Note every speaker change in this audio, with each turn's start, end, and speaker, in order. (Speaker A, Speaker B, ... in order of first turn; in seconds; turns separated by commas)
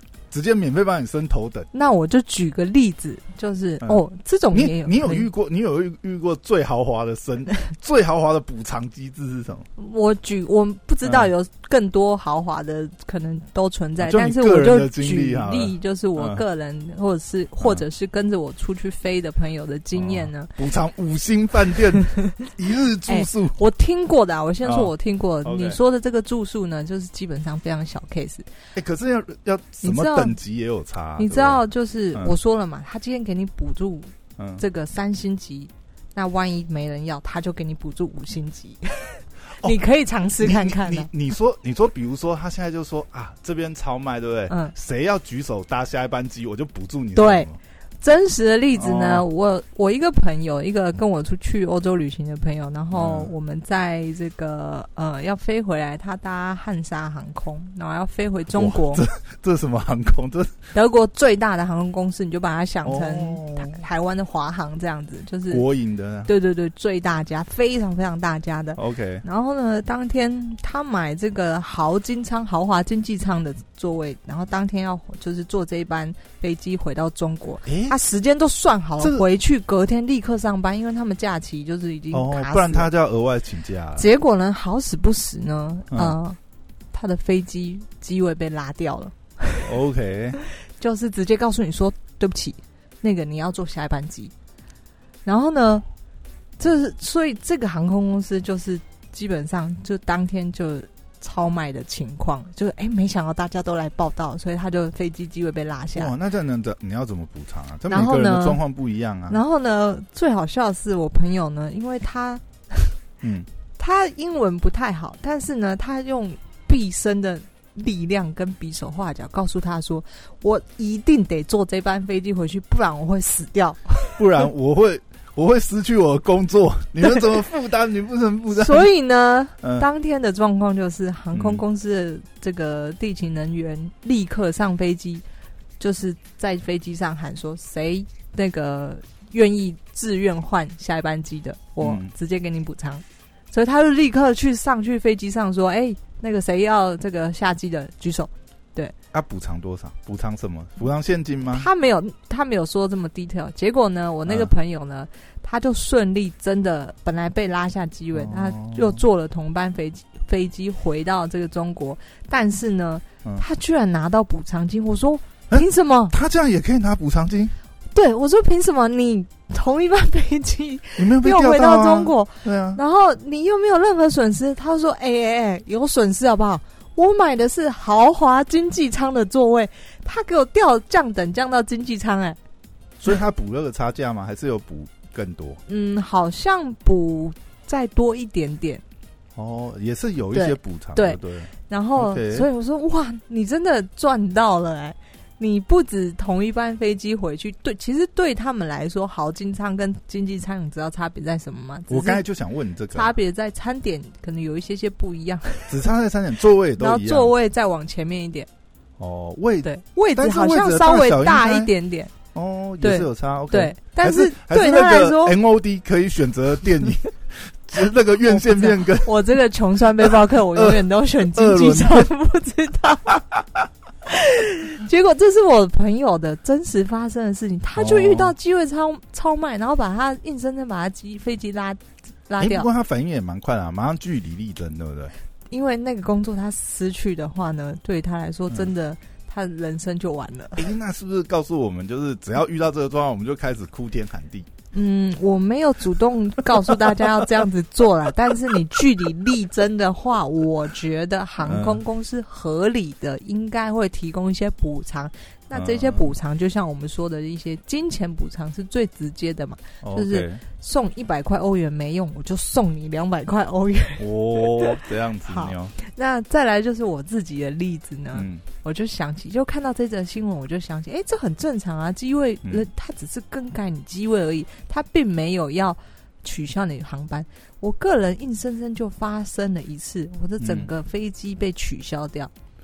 Speaker A: 0.3-1.7, Speaker B: 1.7-5.3, Speaker A: 3.8-9.7, Speaker B: 9.8-20.5, Speaker A: 11.0-11.3, Speaker A: 14.0-16.4, Speaker A: 19.9-23.6, Speaker B: 23.1-28.4, Speaker A: 24.6-24.9, Speaker A: 25.4-25.8, Speaker A: 28.7-31.6, Speaker B: 29.8-30.3, Speaker B: 31.2-41.1, Speaker A: 40.4-47.6, Speaker B: 44.5-44.7, Speaker B: 47.1-47.5, Speaker B: 48.0-59.0, Speaker A: 48.8-49.2, Speaker A: 52.9-53.3, Speaker A: 58.5-60.5, Speaker B: 60.7-65.6, Speaker A: 62.8-63.8, Speaker A: 65.5-66.3, Speaker B: 66.2-82.9, Speaker A: 68.8-69.2, Speaker A: 77.7-77.9, Speaker A: 82.1-84.1, Speaker B: 84.0-86.4, Speaker A: 85.9-86.2, Speaker B: 86.9-89.7, Speaker A: 89.6-90.4, Speaker B: 90.7-94.3, Speaker B: 95.2-95.8, Speaker B: 96.6-106.1, Speaker A: 105.9-109.4, Speaker B: 107.9-108.6, Speaker B: 109.3-113.0, Speaker A: 113.2-113.5, Speaker B: 113.8-124.2, Speaker A: 124.2-128.8, Speaker B: 128.5-135.2, Speaker A: 131.3-131.6, Speaker B: 135.8-148.9, Speaker A: 141.8-142.1, Speaker A: 149.1-151.7, Speaker B: 151.5-166.1, Speaker A: 158.1-159.0, Speaker A: 165.5-167.5, Speaker B: 167.9-182.4, Speaker A: 171.0-172.8, Speaker A: 183.0-185.6, Speaker B: 185.7-188.8, Speaker A: 189.3-192.4, Speaker B: 190.3-202.2, Speaker A: 201.9-203.1, Speaker B: 202.9-205.8, Speaker A: 205.7-207.3, Speaker B: 206.8-208.5, Speaker A: 209.0-211.7, Speaker B: 209.6-212.1, Speaker A: 212.3-219.1, Speaker B: 212.8-215.4, Speaker B: 218.2-223.2, Speaker A: 220.0-222.1, Speaker B: 224.1-232.7, Speaker A: 227.8-228.3, Speaker A: 232.4-235.1, Speaker B: 235.5-240.7, Speaker A: 240.6-244.5, Speaker B: 244.7-264.7, Speaker A: 251.4-251.8, Speaker A: 255.5-256.1, Speaker A: 259.8-260.4, Speaker A: 264.0-265.7, Speaker B: 265.3-282.3, Speaker A: 268.1-268.4, Speaker A: 280.4-280.7